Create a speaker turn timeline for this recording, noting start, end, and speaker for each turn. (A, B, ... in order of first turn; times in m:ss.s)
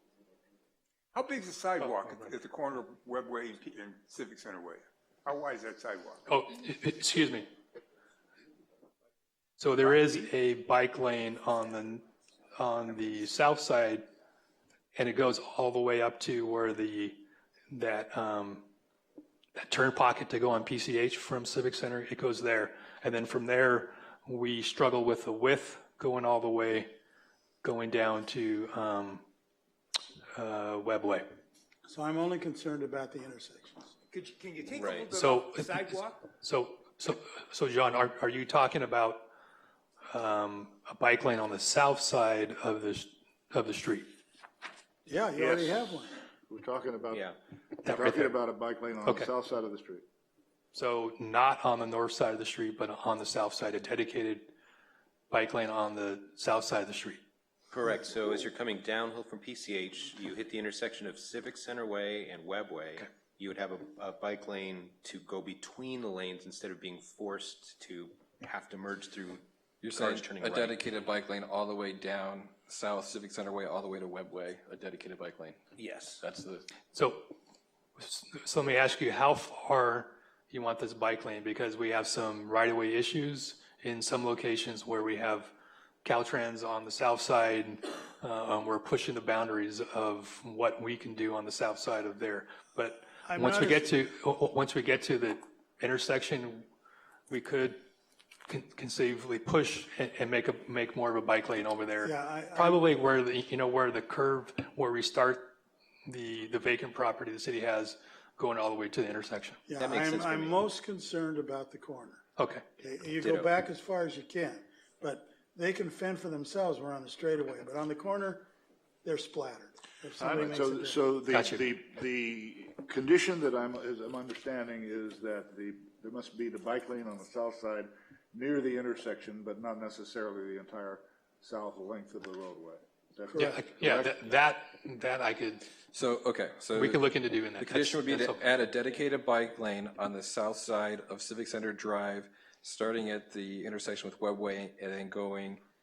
0:01.1-0:06.2 A
0:01.8-0:02.2 B
0:06.3-0:07.5 B
0:09.6-0:14.0 B
0:14.9-0:18.7 B
0:19.5-0:26.9 B
0:27.6-0:29.2 B
0:30.3-0:31.2 B
0:31.8-0:33.9 C
0:34.1-0:35.4 A
0:34.6-0:35.2 D
0:35.1-0:39.3 B
0:40.1-0:44.1 B
0:45.0-0:46.2 C
0:45.4-0:45.7 E
0:46.5-0:47.2 E
0:47.1-0:47.4 D
0:47.8-0:48.4 B
0:47.8-0:50.0 E
0:49.0-0:49.3 B
0:50.7-0:54.5 B
0:55.3-0:57.2 B
0:57.7-1:10.8 D
1:09.8-1:15.6 F
1:15.8-1:16.2 D
1:16.1-1:16.6 F
1:16.9-1:17.3 B
1:18.0-1:25.5 B
1:26.0-1:36.7 B
1:33.2-1:33.9 C
1:37.3-1:37.8 B
1:38.5-1:49.6 B
1:42.0-1:42.8 C
1:49.7-1:52.2 C
1:49.8-1:50.6 D
1:52.4-1:52.6 B
1:52.8-1:58.5 C
1:53.2-1:53.5 D
1:59.0-2:01.0 C
2:00.2-2:14.2 E
2:01.3-2:01.7 B
2:13.3-2:15.8 B
2:15.9-2:25.6 F
2:16.7-2:18.6 B